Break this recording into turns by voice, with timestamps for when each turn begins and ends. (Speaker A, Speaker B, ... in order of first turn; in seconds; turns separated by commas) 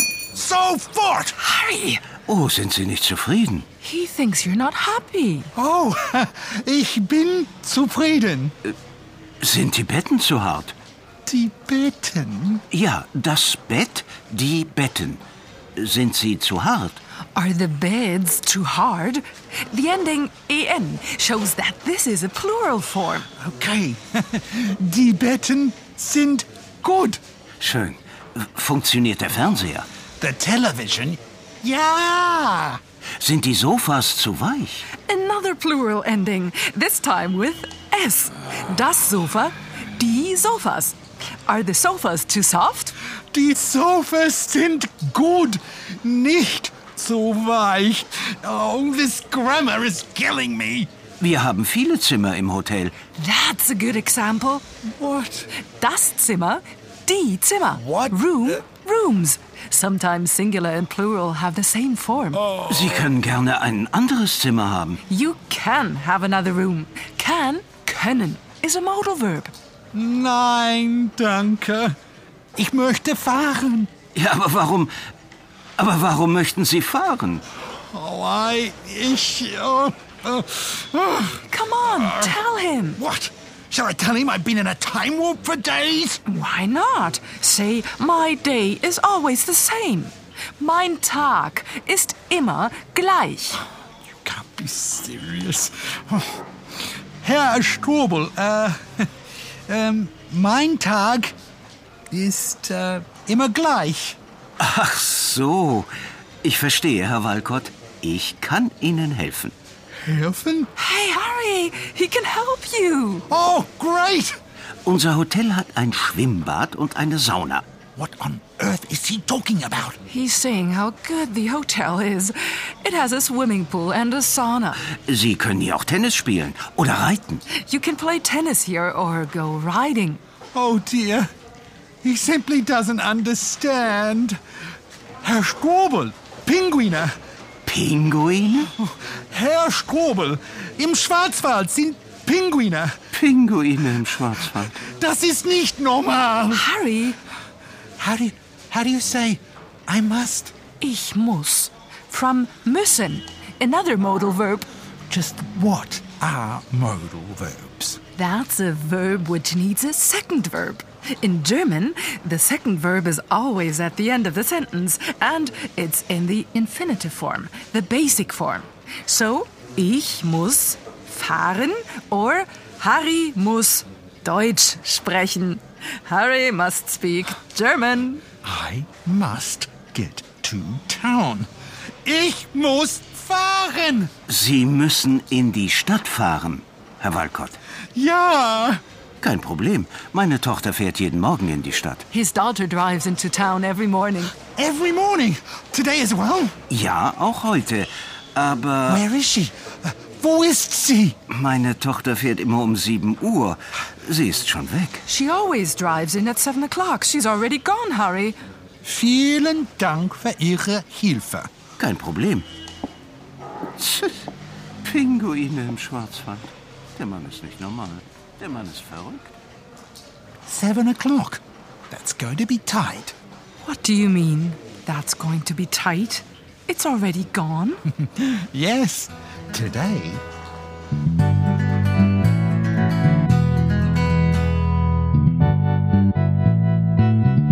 Speaker A: 0.3-1.4, Speaker B: 1.4-2.1, Speaker C: 2.3-3.7, Speaker B: 3.8-5.5, Speaker A: 5.5-8.5, Speaker C: 9.4-10.8, Speaker A: 11.3-12.6, Speaker C: 12.7-15.2, Speaker C: 15.8-17.0, Speaker B: 17.4-23.3, Speaker A: 23.4-27.2, Speaker C: 27.6-29.9, Speaker A: 30.2-32.8, Speaker C: 33.2-34.9, Speaker B: 35.0-43.0, Speaker A: 43.3-50.9, Speaker C: 51.2-52.9, Speaker B: 53.2-54.7, Speaker A: 55.0-55.5, Speaker B: 55.6-62.5, Speaker A: 57.7-58.6, Speaker A: 62.3-63.1, Speaker C: 62.7-65.0, Speaker B: 65.1-69.5, Speaker A: 69.9-72.0, Speaker A: 72.6-73.9, Speaker C: 74.1-74.9, Speaker C: 75.8-77.4, Speaker A: 77.7-82.4, Speaker B: 81.5-83.0, Speaker A: 83.0-86.2, Speaker B: 86.3-93.6, Speaker A: 94.1-96.4, Speaker A: 97.2-99.1, Speaker A: 99.7-101.3, Speaker A: 102.1-104.2, Speaker C: 104.6-105.9, Speaker C: 106.4-109.5, Speaker A: 110.0-110.7, Speaker B: 110.8-113.3, Speaker A: 113.3-114.3, Speaker C: 114.8-117.7, Speaker A: 118.0-120.0, Speaker B: 120.1-124.8, Speaker C: 125.1-127.4, Speaker B: 127.5-130.2, Speaker A: 130.5-131.3, Speaker A: 132.0-134.4, Speaker A: 135.2-137.1, Speaker C: 137.7-138.7, Speaker A: 138.8-143.0, Speaker C: 143.1-144.8, Speaker A: 144.7-146.7, Speaker B: 146.5-147.2, Speaker A: 148.0-150.5, Speaker B: 150.8-154.7, Speaker A: 155.1-158.0, Speaker B: 158.2-178.2, Speaker A: 178.4-181.5, Speaker A: 182.0-184.1, Speaker C: 184.3-187.6, Speaker A: 187.9-188.8, Speaker C: 189.2-192.1, Speaker B: 192.1-194.3, Speaker A: 194.6-196.6, Speaker C: 196.7-199.0, Speaker A: 198.9-201.2, Speaker C: 201.3-205.0, Speaker B: 205.1-208.4, Speaker A: 208.8-211.5, Speaker C: 211.8-212.5, Speaker C: 213.8-214.3, Speaker C: 214.8-219.3, Speaker A: 220.5-223.2, Speaker B: 223.6-227.8, Speaker A: 228.0-230.2